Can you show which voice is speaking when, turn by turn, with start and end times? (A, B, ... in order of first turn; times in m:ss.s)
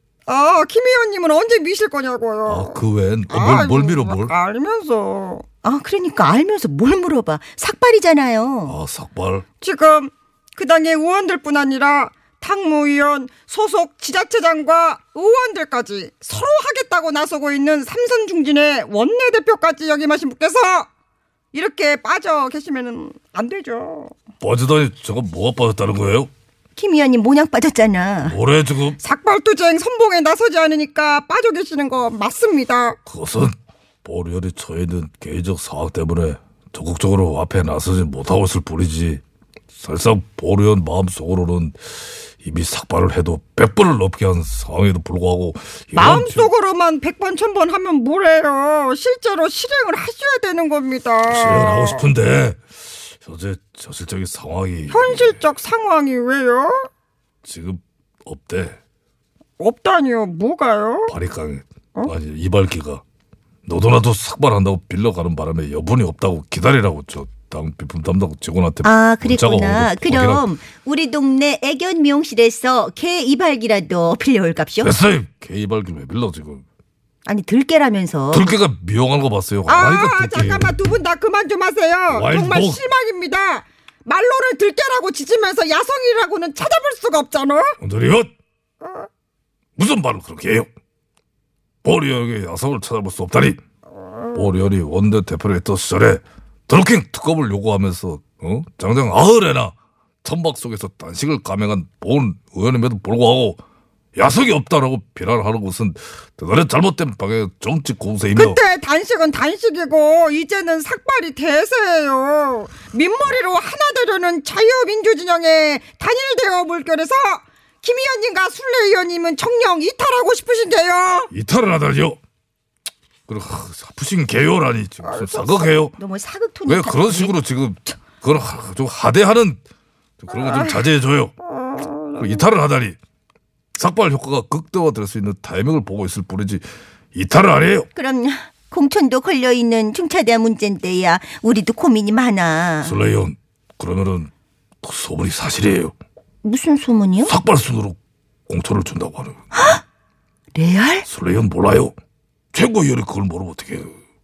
0:00.2-0:05.5 A
0:02.5-0:04.3 B
0:05.6-0:08.8 C
0:08.6-0:09.4 B
0:09.6-0:20.9 A
0:21.5-0:24.1 A
0:24.4-0:26.3 B
0:26.8-0:28.4 C
0:28.2-0:29.0 B
0:29.0-0:33.0 A
0:33.0-0:39.2 B
0:39.8-0:46.5 B
0:45.9-0:52.0 A
0:51.3-0:55.4 B
0:54.9-0:56.9 A
0:57.4-0:58.8 B
0:59.6-1:01.1 A
1:01.1-1:03.0 B
1:03.6-1:10.4 B
1:08.8-1:14.9 C
1:14.8-1:16.6 B
1:17.2-1:18.4 C
1:18.3-1:20.8 B
1:19.6-1:27.7 A
1:22.1-1:22.8 B
1:27.8-1:28.3 B
1:28.8-1:29.1 A
1:29.8-1:30.7 B
1:31.8-1:33.6 B
1:34.3-1:43.6 B
1:44.2-1:48.6 B
1:48.4-2:01.3 A
2:01.3-2:02.2 B
2:03.3-2:05.9 B
2:05.0-2:05.7 A
2:05.9-2:07.4 C
2:06.7-2:09.6 B
2:10.2-2:11.3 B
2:10.3-2:10.8 A
2:11.4-2:12.4 A
2:12.2-2:13.0 B
2:13.8-2:17.9 B
2:17.9-2:23.0 C
2:22.8-2:24.3 B
2:24.8-2:25.9 B
2:26.4-2:27.3 C
2:27.2-2:28.0 B
2:28.5-2:29.4 B
2:29.6-2:29.8 C
2:30.5-2:31.1 C
2:31.1-2:31.9 B
2:32.5-2:34.0 B